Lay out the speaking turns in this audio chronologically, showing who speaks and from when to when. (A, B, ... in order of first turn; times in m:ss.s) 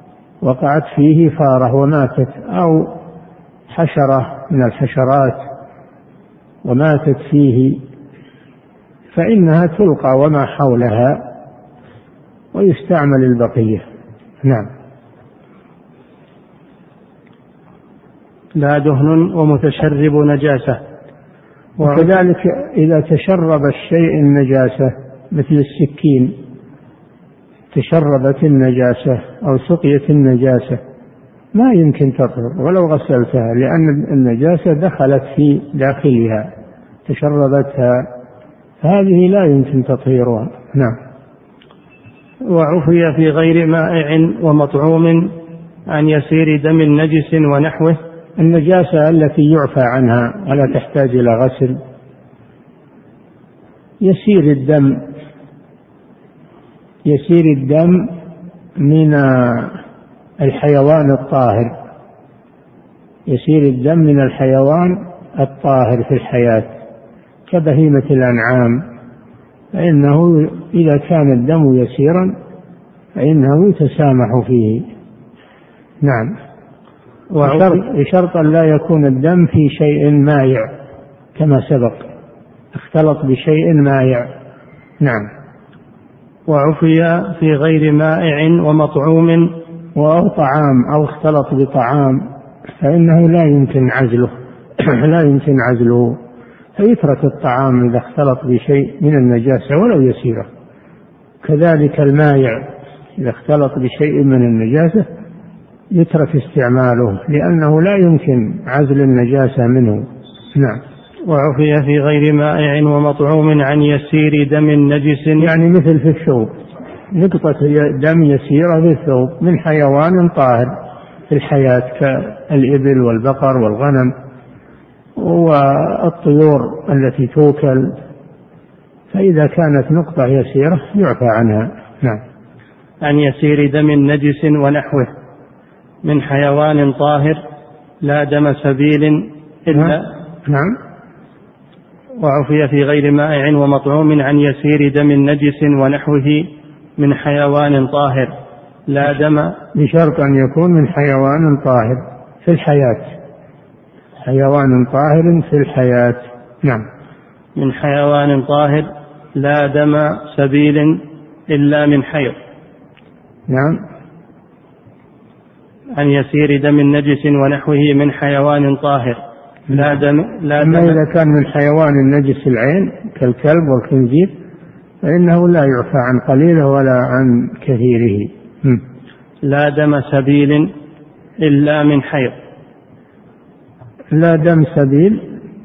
0:00.4-0:02.9 A
0:03.7-0:05.4 A
0:06.6-0:07.8 A
0:09.2-0:11.3 A
0:12.5-0:13.8 A
0:18.6-0:20.8 B
0:21.8-0:22.1 B
0:21.8-0:26.4 A
0:27.7-0:30.8 A
0:31.5-0:36.5 A
0:37.1-0:38.1 A
0:38.8-0:41.0 A
0:42.4-0:45.3 B
0:45.9-0:48.0 B
0:48.4-0:51.8 A
0:54.0-0:55.1 A
0:57.0-0:58.1 A
0:58.8-0:59.8 A
1:00.4-1:01.7 A
1:03.3-1:06.7 A
1:07.5-1:08.8 A
1:09.7-1:12.3 A
1:13.2-1:14.9 A
1:16.0-1:16.3 A
1:17.3-1:17.8 B
1:17.4-1:20.7 A
1:21.4-1:22.1 A
1:22.8-1:24.3 A
1:25.0-1:25.3 A
1:26.5-1:29.5 B
1:30.0-1:32.2 A
1:32.8-1:36.2 A
1:36.8-1:40.5 A
1:41.4-1:42.6 A
1:43.2-1:45.1 A
1:45.9-1:50.8 A
1:51.3-1:55.5 B
1:55.4-1:56.5 A
1:57.1-2:00.7 A
2:01.3-2:04.1 A
2:05.2-2:08.0 A
2:09.1-2:12.2 A
2:13.0-2:15.1 B
2:16.0-2:17.4 B
2:18.0-2:20.1 B
2:19.7-2:20.8 A
2:22.2-2:28.3 B
2:28.9-2:29.6 B
2:29.7-2:33.1 A
2:34.2-2:36.9 A
2:37.6-2:42.4 B
2:43.5-2:43.8 A
2:46.0-2:51.0 B
2:50.6-2:54.3 A
2:55.0-2:58.8 A
2:59.4-3:00.7 B
3:01.4-3:02.4 B
3:04.1-3:05.2 A